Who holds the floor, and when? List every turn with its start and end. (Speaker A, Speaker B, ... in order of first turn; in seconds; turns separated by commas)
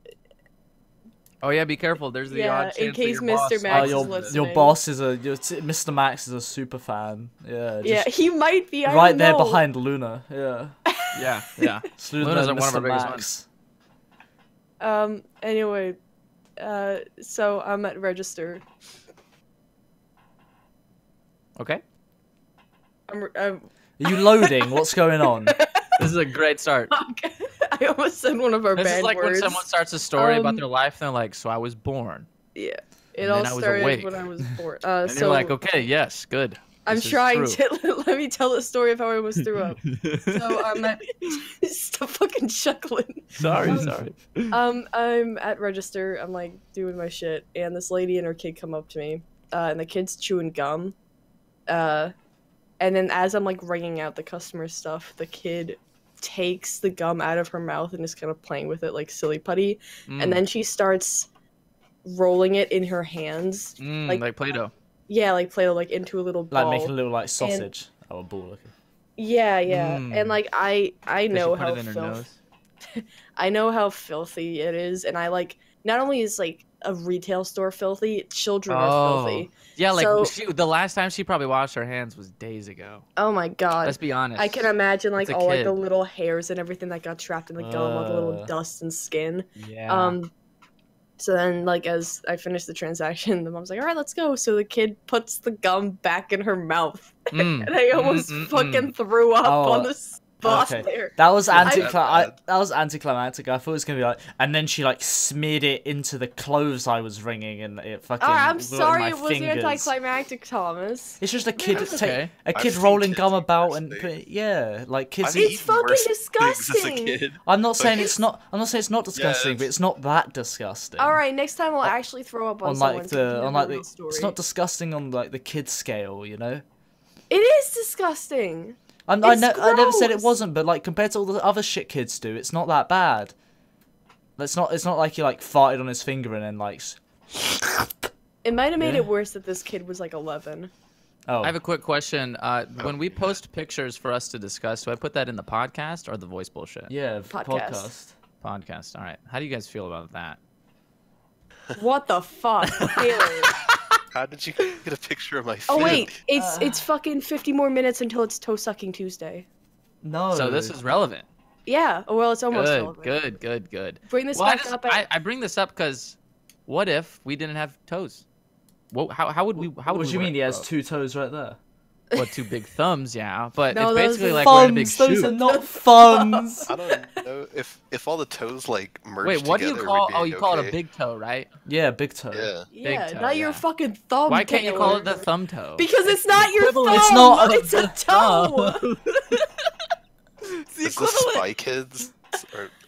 Speaker A: 1.4-4.4, Speaker B: 2.3-4.8, Speaker C: 3.7-8.1, Speaker B: 7.8-9.6, Speaker C: 8.8-10.8, Speaker B: 10.9-11.2, Speaker A: 11.1-13.2, Speaker C: 12.0-13.4, Speaker B: 14.8-16.0, Speaker B: 16.6-18.6, Speaker A: 21.6-21.8, Speaker B: 23.1-24.8, Speaker C: 24.0-25.6, Speaker B: 25.4-26.0, Speaker A: 25.9-26.9, Speaker B: 26.9-29.6, Speaker A: 28.8-32.3, Speaker B: 30.1-30.6, Speaker B: 32.5-35.5, Speaker A: 33.2-34.2, Speaker A: 35.0-37.6, Speaker B: 36.9-43.9, Speaker A: 39.8-40.8, Speaker A: 43.4-44.5, Speaker C: 43.6-43.9, Speaker B: 44.5-50.9, Speaker B: 51.7-52.1, Speaker B: 52.8-61.3, Speaker A: 60.1-60.4, Speaker B: 62.0-64.2, Speaker A: 63.8-64.7, Speaker B: 65.1-67.7, Speaker C: 66.5-68.7, Speaker B: 69.2-72.2, Speaker A: 69.7-70.4, Speaker A: 71.3-72.3, Speaker B: 72.9-80.3, Speaker A: 78.7-83.0, Speaker B: 83.2-90.3, Speaker A: 83.8-85.8, Speaker C: 87.6-88.5, Speaker A: 89.5-90.2, Speaker B: 91.2-101.9, Speaker A: 97.3-98.9, Speaker C: 99.4-99.9, Speaker C: 100.4-109.9, Speaker D: 101.5-102.3, Speaker B: 108.2-112.0, Speaker C: 111.2-115.7, Speaker D: 111.7-114.1, Speaker A: 111.9-112.3, Speaker D: 115.2-118.1, Speaker B: 115.3-117.2, Speaker C: 117.4-121.2, Speaker D: 119.1-119.7, Speaker B: 121.0-124.3, Speaker C: 122.6-126.6, Speaker B: 127.3-130.4, Speaker C: 129.1-133.3, Speaker C: 134.4-138.1, Speaker B: 138.4-140.7, Speaker C: 138.8-139.1, Speaker C: 141.3-141.6, Speaker A: 141.4-146.9, Speaker D: 142.8-143.3, Speaker C: 146.9-148.1, Speaker B: 147.3-147.9, Speaker A: 148.4-150.4, Speaker B: 151.7-153.6, Speaker A: 152.7-153.6, Speaker D: 154.1-156.1, Speaker B: 155.7-159.5, Speaker C: 155.8-156.8, Speaker C: 160.0-160.8, Speaker A: 160.3-161.3, Speaker B: 161.7-163.2, Speaker A: 162.5-166.2, Speaker B: 164.1-165.1, Speaker A: 166.7-168.2, Speaker A: 168.9-170.6, Speaker C: 169.6-171.6, Speaker A: 172.2-175.3, Speaker B: 173.7-174.7, Speaker C: 174.4-176.7, Speaker B: 175.4-177.2, Speaker D: 176.7-180.8, Speaker A: 179.2-181.5, Speaker C: 181.7-182.5, Speaker D: 182.3-182.7, Speaker B: 182.7-188.9, Speaker A: 182.8-183.6, Speaker A: 184.3-189.7, Speaker C: 186.9-187.6, Speaker A: 190.5-191.5, Speaker D: 190.8-192.7